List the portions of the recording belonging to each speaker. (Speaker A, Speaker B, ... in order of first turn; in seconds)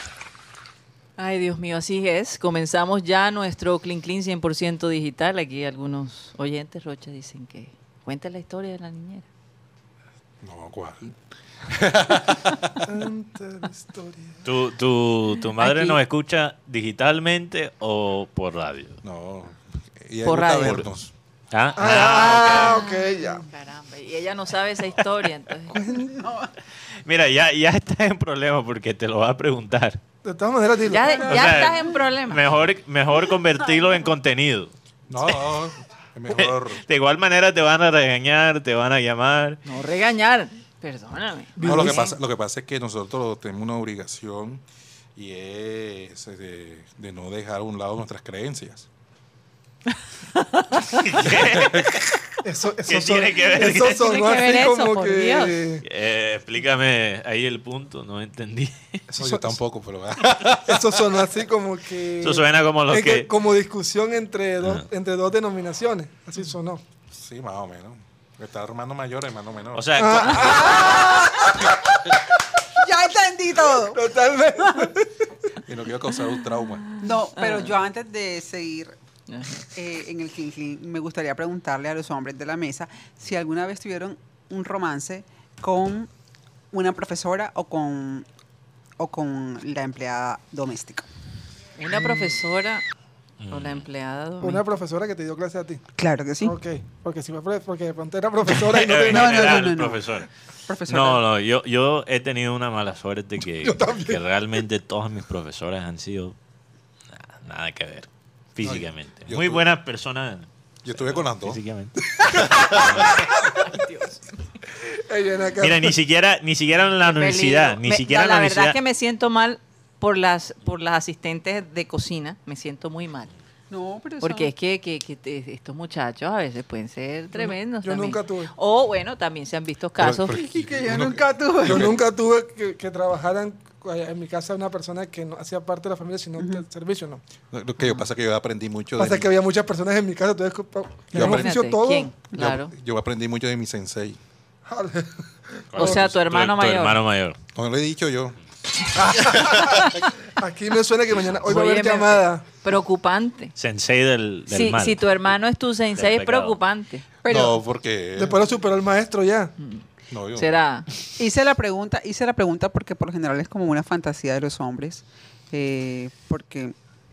Speaker A: 1.2-9.2, 15.6-16.0, 20.2-20.8, 21.8-25.8, 30.9-32.4, 39.6-42.1, 50.3-51.1, 53.9-55.6, 77.0-77.8, 79.3-79.7, 91.8-92.8, 93.5-94.6, 113.6-114.2, 117.0-123.3, 124.2-130.4, 137.8-138.1, 141.1-142.7, 145.8-147.0, 151.5-153.5, 154.5-157.0, 159.6-159.8, 160.3-160.9
Speaker B: 10.4-12.8, 19.0-21.1, 35.1-36.8, 41.6-44.6, 45.1-48.9, 51.2-52.0, 59.2-61.3, 67.1-70.1, 75.7-76.9, 108.6-109.6, 110.8-111.6, 112.2-113.1, 130.0-131.9, 137.5-139.3, 141.1-141.5, 142.3-144.2, 147.5-148.4, 148.9-149.9, 157.2-158.4, 160.1-160.6
Speaker C: 12.8-14.4, 21.8-23.4, 25.7-26.1, 30.2-31.7, 41.5-42.1, 52.4-55.8, 59.1-59.6, 60.6-66.8, 70.0-71.8, 73.9-75.1, 94.4-95.8, 96.4-99.7, 103.6-104.2, 113.3-113.6, 114.8-116.0, 127.4-128.5, 131.7-137.2, 139.0-142.1, 144.7-146.0, 149.2-152.4, 158.2-159.5
Speaker D: 14.4-19.0, 21.5-22.8, 27.0-30.0, 31.2-34.7, 35.2-35.6, 36.3-39.6, 51.0-52.0, 52.9-54.2, 55.8-59.0, 62.2-63.3, 64.6-64.8, 69.7-71.0, 93.4-93.8, 98.5-100.3, 100.9-106.3, 107.1-112.0, 112.7-113.2, 115.6-118.8, 145.7-147.4, 153.6-155.2, 156.0-156.6
Speaker E: 25.9-26.5, 70.7-71.4, 72.8-74.0, 77.0-78.9, 79.7-86.1, 86.7-88.3, 89.0-91.1, 96.0-96.6, 99.0-101.2, 123.7-124.5, 130.2-131.9, 136.4-136.6, 157.2-157.6, 161.2-166.7